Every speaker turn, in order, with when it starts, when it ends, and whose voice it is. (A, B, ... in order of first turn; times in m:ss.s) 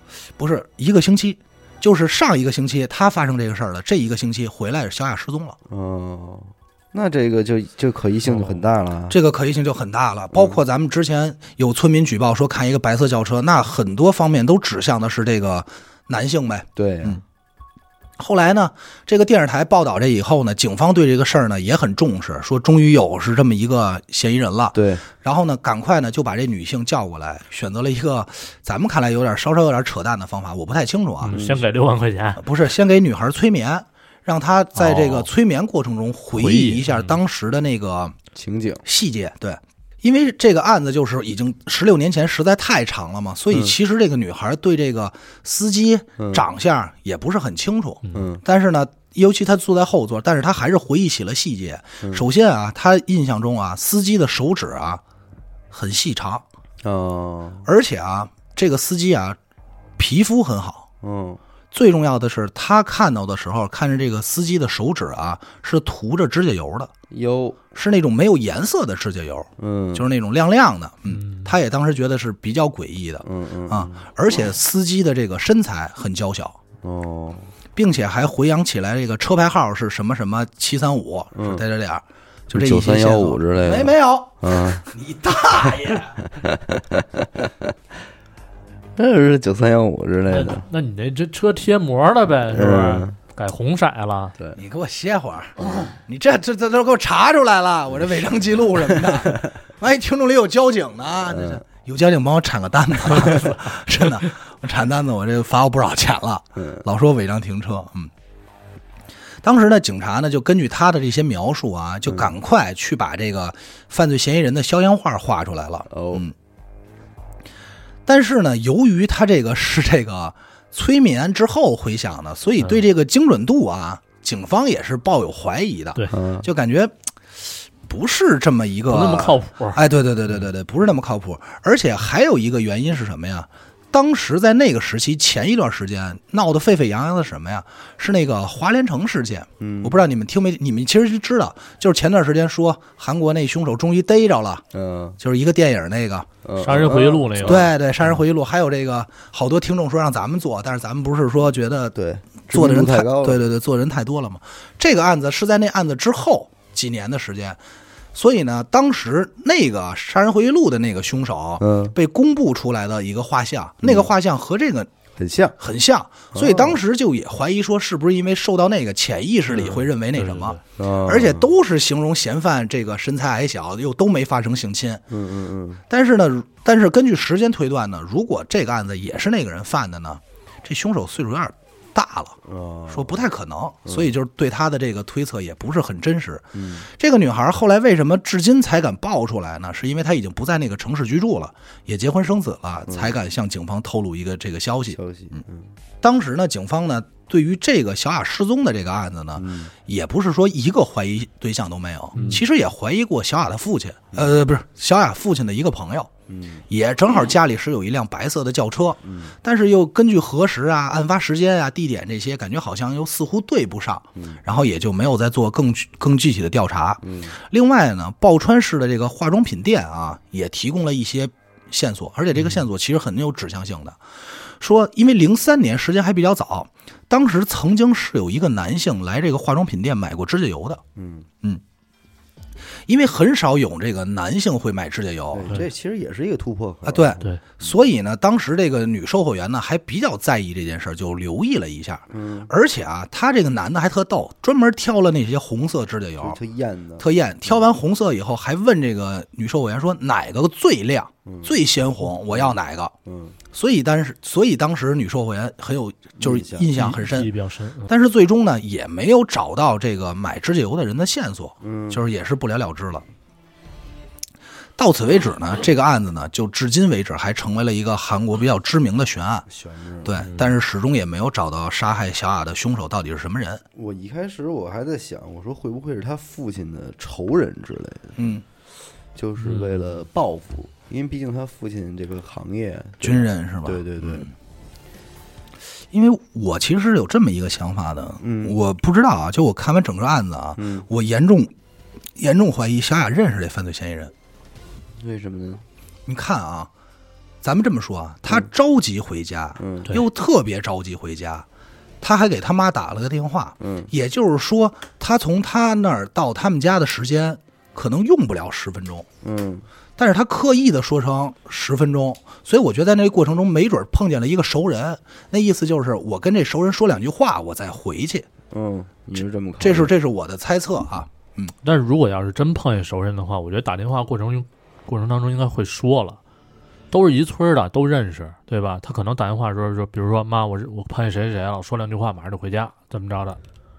0:00.4-0:05.6 A
0:05.7-0:09.2 B
0:08.3-0:08.6 C
0:09.1-0:17.2 A
0:16.8-0:17.2 B
0:18.2-0:31.4 A
0:24.7-0:25.0 B
0:31.2-0:32.4 C
0:31.3-0:31.6 B
0:32.4-0:38.2 A
0:34.8-0:35.3 C
0:36.4-0:37.2 C
0:38.3-0:38.8 B
0:38.8-0:55.0 A
0:46.2-0:46.4 B
0:48.1-0:48.4 B
0:55.7-0:56.4 A
0:56.8-0:57.6 B
0:57.6-0:59.4 A
1:00.0-1:00.8 A
1:01.0-1:01.4 B
1:01.7-1:06.9 A
1:07.1-1:07.6 B
1:07.7-1:16.6 A
1:09.6-1:10.0 B
1:11.1-1:11.6 C
1:13.2-1:14.0 B
1:16.8-1:17.5 B
1:17.7-1:26.2 A
1:21.3-1:21.6 B
1:22.5-1:24.8 B
1:26.2-1:27.7 B
1:29.0-1:30.6 B
1:30.3-1:34.3 C
1:32.5-1:33.2 B
1:34.6-1:48.1 A
1:41.3-1:41.6 B
1:46.6-1:46.8 B
1:49.4-1:56.3 A
1:52.1-1:52.3 B
1:55.9-1:56.3 B
1:58.0-2:24.6 A
2:06.1-2:06.5 B
2:08.9-2:09.8 C
2:19.6-2:20.0 B
2:24.7-2:25.2 B
2:25.2-2:26.3 A
2:26.4-2:27.7 B
2:26.6-2:27.7 C
2:27.4-2:31.9 A
2:31.9-2:33.4 B
2:32.5-2:37.6 A
2:38.1-2:44.9 A
2:41.6-2:41.9 B
2:45.2-2:45.6 B
2:45.6-2:55.0 A
2:46.3-2:46.8 B
2:49.5-2:50.6 C
2:50.8-2:51.4 B
2:55.1-2:55.8 B
2:55.9-3:02.4 A
3:02.4-3:03.2 B
3:02.9-3:15.4 A
3:03.8-3:04.1 B
3:06.5-3:06.9 B
3:12.9-3:13.1 B
3:14.9-3:15.7 B
3:16.0-3:26.1 A
3:19.4-3:19.7 B
3:22.1-3:22.4 B
3:22.1-3:22.4 C
3:26.3-3:26.6 B
3:26.7-3:44.0 A
3:29.0-3:29.3 B
3:34.2-3:34.4 B
3:37.0-3:37.4 B
3:44.6-3:50.8 A
3:50.9-3:51.3 B
3:52.9-3:55.6 A
3:55.3-3:57.2 B
3:56.8-4:06.4 A
4:02.1-4:02.5 B
4:06.2-4:07.0 B
4:07.0-4:12.9 A
4:11.2-4:11.5 B
4:12.3-4:13.4 B
4:13.5-4:17.3 A
4:16.2-4:16.7 B
4:16.8-4:17.9 C
4:17.9-4:23.0 A
4:21.6-4:22.0 B
4:24.8-4:29.5 A
4:29.5-4:30.2 B
4:30.0-4:33.6 A
4:33.7-4:38.2 B
4:38.2-4:38.4 A
4:39.1-4:44.3 B
4:39.4-4:40.0 C
4:43.0-4:44.3 A
4:45.9-4:51.5 A
4:48.2-4:48.6 B
4:50.6-4:50.9 B
4:52.2-4:54.1 A
4:55.0-4:55.6 B
4:56.0-4:56.7 A
4:57.4-5:01.4 A
4:59.6-5:00.0 B
5:02.0-5:09.0 A
5:03.6-5:03.9 B
5:09.2-5:09.6 B
5:10.0-5:18.3 A
5:18.5-5:19.9 B
5:19.6-5:21.5 A
5:21.6-5:26.2 C
5:26.9-5:33.4 C